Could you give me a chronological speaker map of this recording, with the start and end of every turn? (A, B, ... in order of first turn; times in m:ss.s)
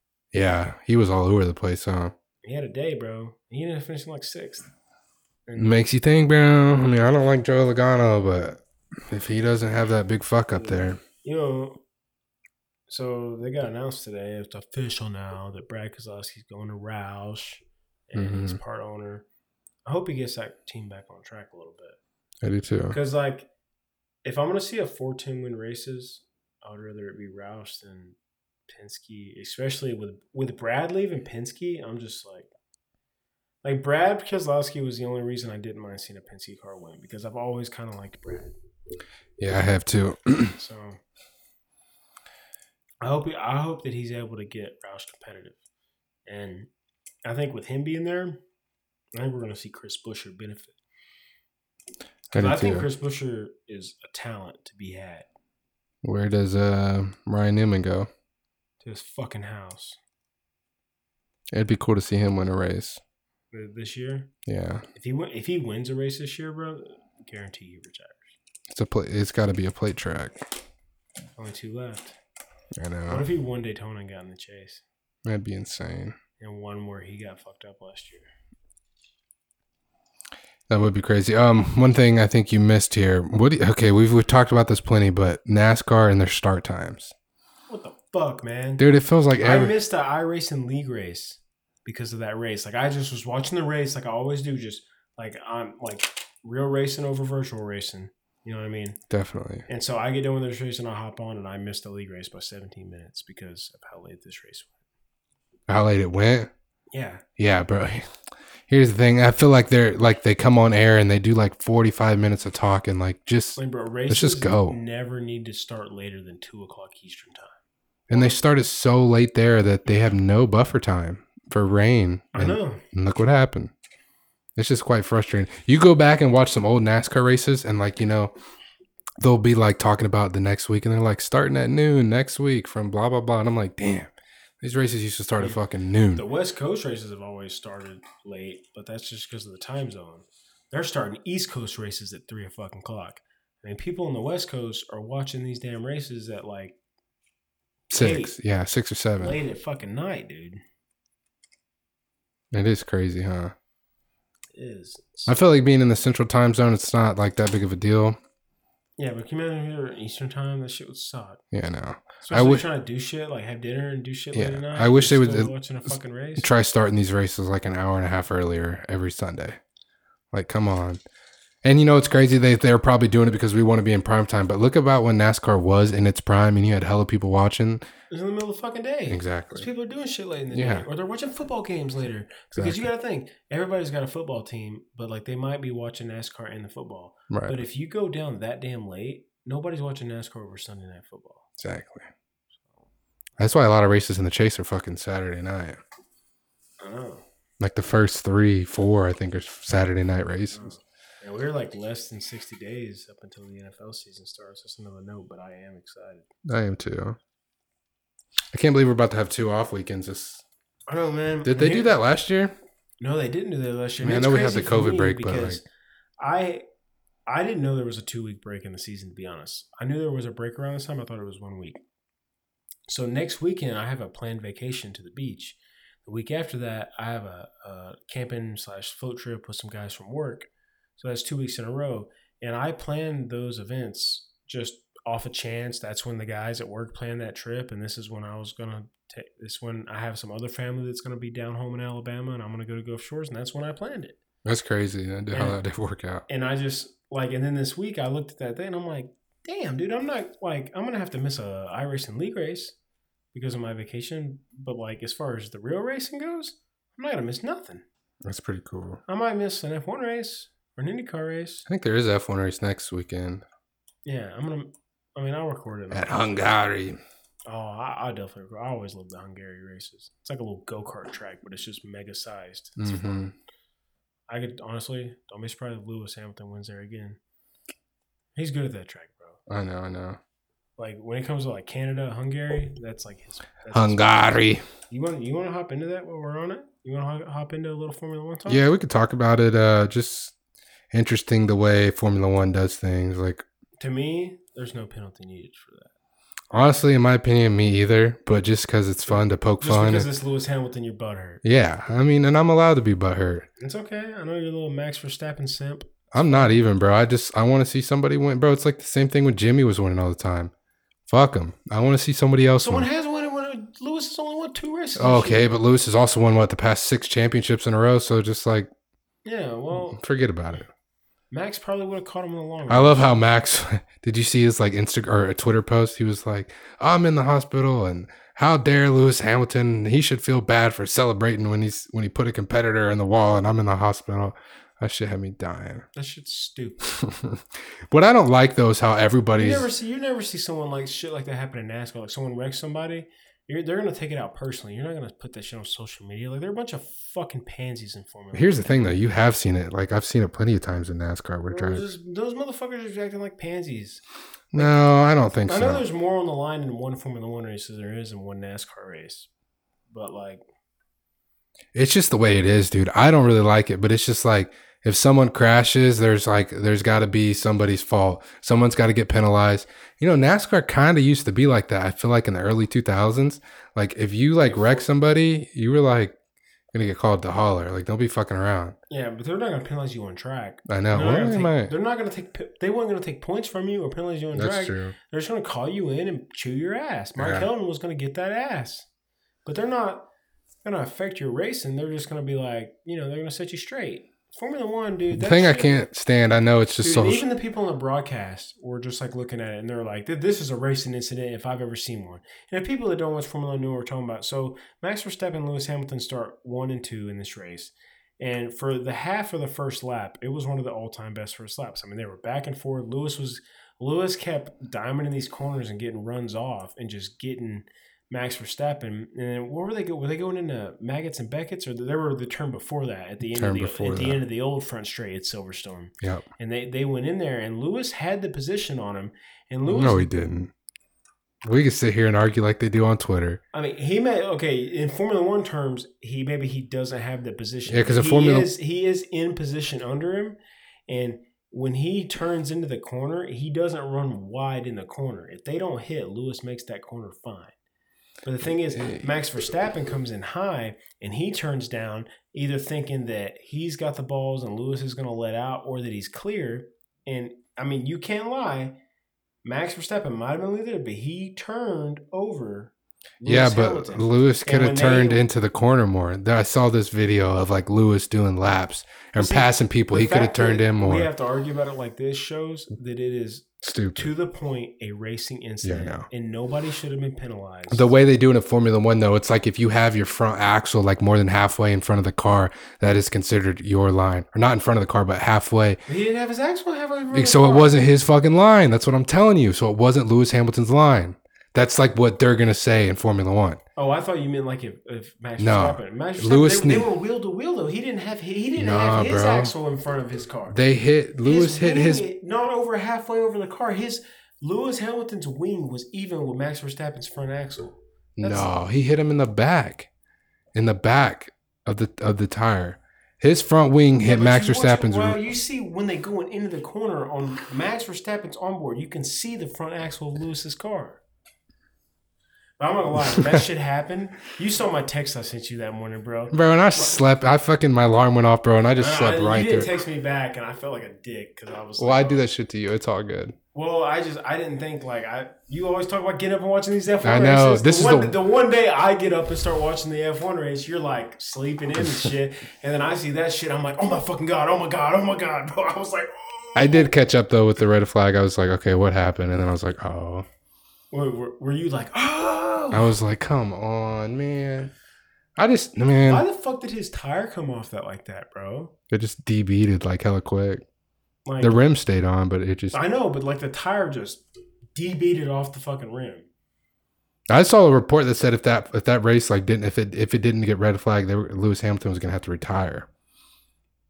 0:00.3-0:02.1 A
0:02.4-0:04.7 B
0:05.5-0:05.8 B
0:05.6-0:11.0 A
0:10.5-0:11.8 B
0:12.9-0:19.2 B
0:18.1-0:18.6 A
0:19.8-0:22.0 B
0:22.4-0:23.0 A
0:22.9-0:23.5 B
0:24.2-0:28.2 B
0:28.7-0:32.5 B
0:33.6-0:38.5 B
0:39.4-0:40.6 A
0:40.6-0:41.0 B
0:43.0-0:45.6 B
0:46.3-0:46.7 B
0:47.2-0:48.4 B
0:49.1-0:50.8 B
0:52.3-0:52.8 A
0:52.3-0:55.3 B
0:56.0-0:58.1 A
0:58.8-1:00.0 B
1:01.5-1:03.0 A
1:03.5-1:04.3 B
1:04.4-1:04.8 A
1:04.9-1:08.4 B
1:08.7-1:10.4 A
1:11.4-1:12.2 B
1:12.8-1:13.2 A
1:13.1-1:14.8 B
1:15.2-1:16.2 A
1:16.4-1:18.2 B
1:20.7-1:27.1 A
1:27.7-1:28.8 B
1:28.8-1:29.7 A
1:29.4-1:39.0 B
1:39.1-1:39.6 A
1:39.7-1:44.8 B
1:45.7-1:46.5 A
1:46.9-1:47.2 B
1:47.4-1:48.1 A
1:48.7-1:54.8 A
1:53.6-1:57.6 B
1:58.1-2:03.7 A
1:58.1-1:58.4 B
2:02.3-2:02.8 B
2:04.6-2:08.3 A
2:09.2-2:16.2 A
2:16.1-2:26.8 B
2:27.9-2:28.3 B
2:27.9-2:29.4 A
2:29.2-2:30.6 B
2:32.5-2:33.5 A
2:34.5-2:35.4 B
2:35.3-2:38.2 A
2:39.0-2:41.4 B
2:41.5-2:42.6 A
2:42.2-2:46.5 B
2:44.3-2:45.5 A
2:46.4-2:49.6 A
2:50.3-2:51.0 A
2:51.6-2:57.8 A
2:58.1-3:11.5 B
2:59.1-2:59.7 A
3:00.5-3:00.8 A
3:02.5-3:02.8 A
3:07.3-3:07.6 A
3:11.6-3:12.1 A
3:13.4-3:15.8 A
3:16.8-3:17.2 B
3:17.6-3:20.7 A
3:20.5-3:26.3 B
3:26.4-3:27.2 A
3:28.5-3:30.4 A
3:30.9-3:32.0 B
3:31.4-3:32.6 A
3:33.0-3:35.6 B
3:34.0-3:35.6 A
3:36.2-3:36.6 B
3:37.3-3:41.8 B
3:42.9-4:04.2 B
4:04.4-4:06.2 A
4:05.3-4:05.6 B
4:06.3-4:12.7 B
4:13.3-4:17.8 B
4:18.2-4:19.0 A
4:19.1-4:21.6 B
4:21.7-4:23.4 A
4:24.0-4:26.5 B
4:25.9-4:27.0 A
4:27.5-4:33.3 B
4:32.8-4:33.3 A
4:34.3-4:37.2 B
4:38.3-4:39.4 B
4:39.5-4:40.2 A
4:40.8-4:44.3 B
4:43.7-4:44.6 A
4:44.9-4:48.6 B
4:48.5-4:50.3 A
4:50.9-4:53.4 A
4:53.8-4:55.9 B
4:56.5-5:00.1 A
4:59.1-5:01.4 B
5:01.4-5:03.5 A
5:03.6-5:06.6 B
5:06.1-5:10.5 A
5:11.1-5:12.8 A
5:12.6-5:15.5 B
5:15.0-5:18.7 A
5:19.2-5:20.0 B
5:19.7-5:20.7 A
5:21.3-5:23.2 B
5:22.7-5:35.8 A
5:35.9-5:36.8 B
5:36.8-5:39.7 A
5:39.4-5:49.0 B
5:48.3-5:51.9 A
5:51.5-5:54.0 B
5:54.5-5:55.8 A
5:54.6-5:54.8 B
5:55.4-5:59.3 B
5:59.9-6:00.4 B
6:01.7-6:16.2 A
6:14.4-6:14.9 B
6:16.7-6:18.8 A
6:18.9-6:28.9 B
6:20.7-6:21.7 A
6:24.3-6:24.9 A
6:27.2-6:27.5 A
6:29.4-6:30.1 B
6:30.6-6:35.8 B
6:35.1-6:37.2 A
6:36.8-7:10.1 B
7:03.2-7:04.2 A
7:06.0-7:06.2 A
7:09.7-7:10.5 A
7:11.4-7:13.4 A
7:13.5-7:20.4 B
7:17.7-7:18.5 A
7:20.9-7:27.5 B
7:28.2-7:38.8 B
7:28.7-7:29.2 A
7:39.4-7:45.2 B
7:43.2-7:51.1 A
7:49.2-7:57.9 B
7:53.6-7:54.1 A
7:55.6-7:56.1 A
7:57.7-8:05.8 A
8:05.9-8:07.8 B
8:07.1-8:13.6 A
8:13.8-8:20.6 B
8:15.4-8:16.9 A
8:18.6-8:19.5 A
8:20.5-8:22.0 A
8:21.2-8:28.5 B
8:28.2-8:29.9 A
8:30.5-8:35.2 A
8:34.0-8:41.0 B
8:42.6-8:46.9 B
8:43.1-8:43.4 A
8:46.3-8:49.7 A
8:48.8-8:52.2 B
8:51.8-8:53.4 A
8:53.5-9:06.9 B
8:57.0-8:58.2 A
9:01.8-9:02.1 A
9:06.6-9:10.2 A
9:10.9-9:13.0 B
9:12.7-9:14.7 A
9:15.4-9:16.2 A
9:16.0-9:18.7 B
9:18.9-9:20.6 A
9:21.2-9:21.6 B
9:21.4-9:22.8 A
9:22.7-9:24.2 B
9:24.7-9:26.3 B
9:27.3-9:32.9 A